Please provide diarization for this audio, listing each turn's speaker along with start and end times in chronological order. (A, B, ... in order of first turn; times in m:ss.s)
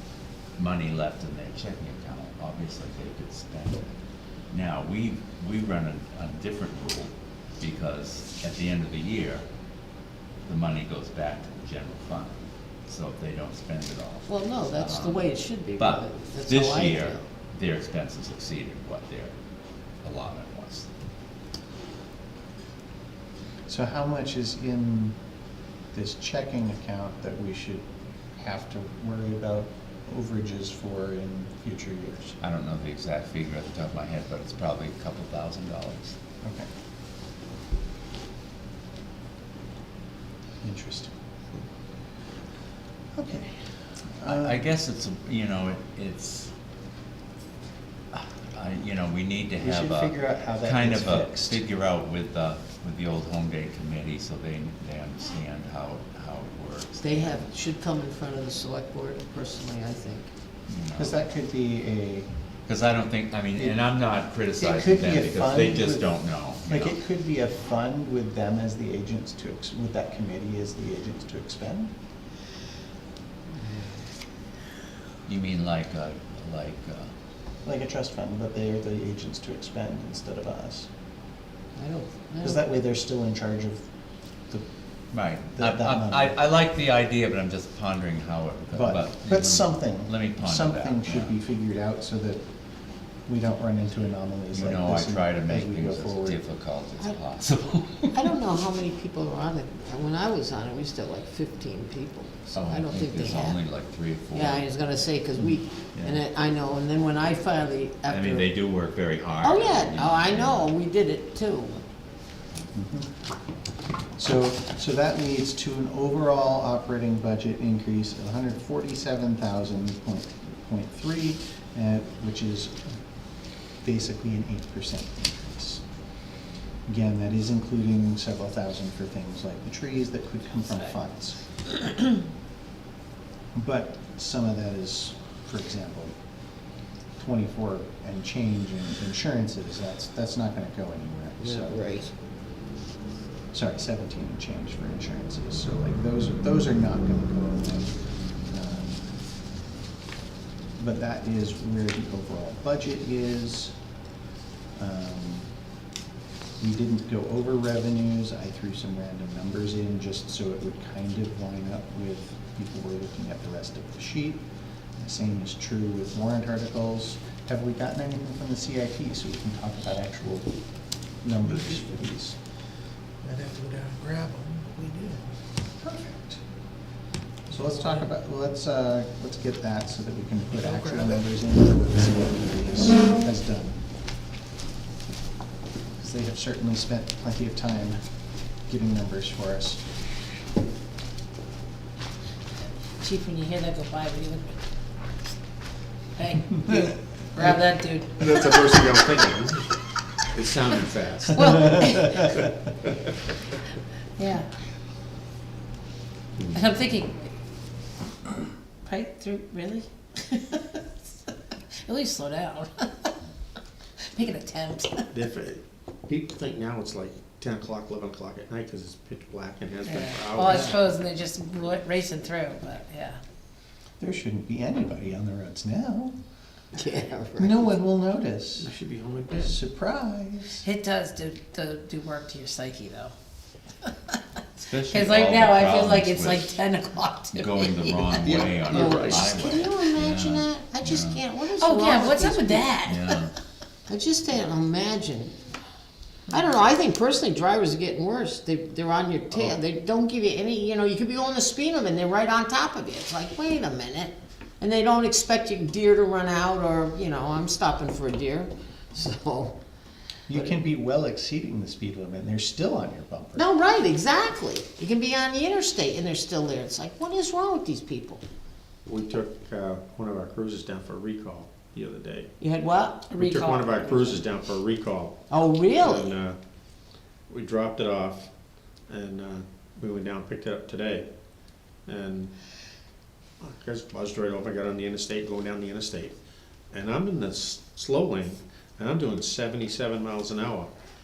0:00.6-0:03.9 A
0:04.5-0:09.5 A
0:10.4-0:19.4 A
0:14.3-0:17.3 B
0:20.0-0:20.9 A
0:23.7-0:25.2 C
0:25.9-0:32.4 C
0:32.4-0:36.2 A
0:36.4-0:36.7 C
0:40.6-0:41.1 C
0:43.2-0:43.6 C
0:44.2-0:44.6 C
0:44.2-0:46.5 A
0:48.1-0:57.5 A
0:49.6-0:51.6 C
0:57.0-1:00.3 B
1:00.7-1:01.2 A
1:01.0-1:02.3 C
1:02.7-1:07.0 A
1:04.6-1:11.9 C
1:15.3-1:17.1 A
1:17.6-1:20.9 C
1:21.8-1:22.6 B
1:22.4-1:23.9 C
1:25.1-1:31.4 A
1:25.5-1:26.4 C
1:28.7-1:32.4 C
1:33.3-1:36.4 C
1:34.5-1:38.2 A
1:38.1-1:43.6 B
1:42.5-1:45.1 A
1:44.3-1:48.5 B
1:45.9-1:46.2 A
1:48.1-1:50.7 A
1:49.4-1:51.8 B
1:52.7-1:53.1 C
1:54.2-2:02.9 C
2:03.8-2:05.8 C
2:06.9-2:11.4 C
2:13.5-2:16.2 C
2:17.2-2:21.8 C
2:21.4-2:22.1 B
2:23.5-2:27.9 C
2:28.5-2:29.1 C
2:30.8-2:33.8 C
2:34.8-2:35.5 C
2:36.6-2:44.5 C
2:45.0-2:50.5 C
2:51.2-2:52.4 C
2:53.2-2:55.2 D
2:55.8-2:56.4 C
2:57.5-3:03.8 C
3:00.7-3:01.0 E
3:06.0-3:08.0 C
3:08.7-3:09.8 C
3:13.0-3:14.6 F
3:16.2-3:18.8 F
3:18.2-3:23.1 E
3:21.3-3:22.3 F
3:24.2-3:24.5 F
3:26.5-3:27.3 F
3:28.9-3:30.9 F
3:31.8-3:33.1 F
3:34.1-3:35.1 F
3:35.1-3:40.9 E
3:39.8-3:43.2 F
3:40.5-3:40.8 C
3:44.0-3:46.2 C
3:46.7-3:47.8 B
3:47.4-3:48.7 C
3:48.6-3:49.6 E
3:49.4-3:50.6 C
3:50.6-3:53.1 F
3:53.8-3:54.2 F
3:54.6-3:56.6 A
3:54.9-3:58.5 F
3:57.3-4:01.2 A
3:58.3-3:59.4 E
3:58.6-4:02.8 B
4:01.5-4:03.3 F
4:02.8-4:03.3 A
4:03.9-4:05.3 B
4:06.3-4:19.6 B
4:20.3-4:23.5 C
4:20.3-4:20.6 B
4:23.4-4:28.2 B
4:28.9-4:32.3 E
4:32.4-4:33.1 B
4:33.1-4:34.2 F
4:33.1-4:36.4 E
4:35.3-4:36.1 B
4:37.3-4:38.3 E
4:38.9-4:41.1 E
4:41.9-4:42.3 E
4:43.4-4:46.2 E
4:46.7-4:50.7 E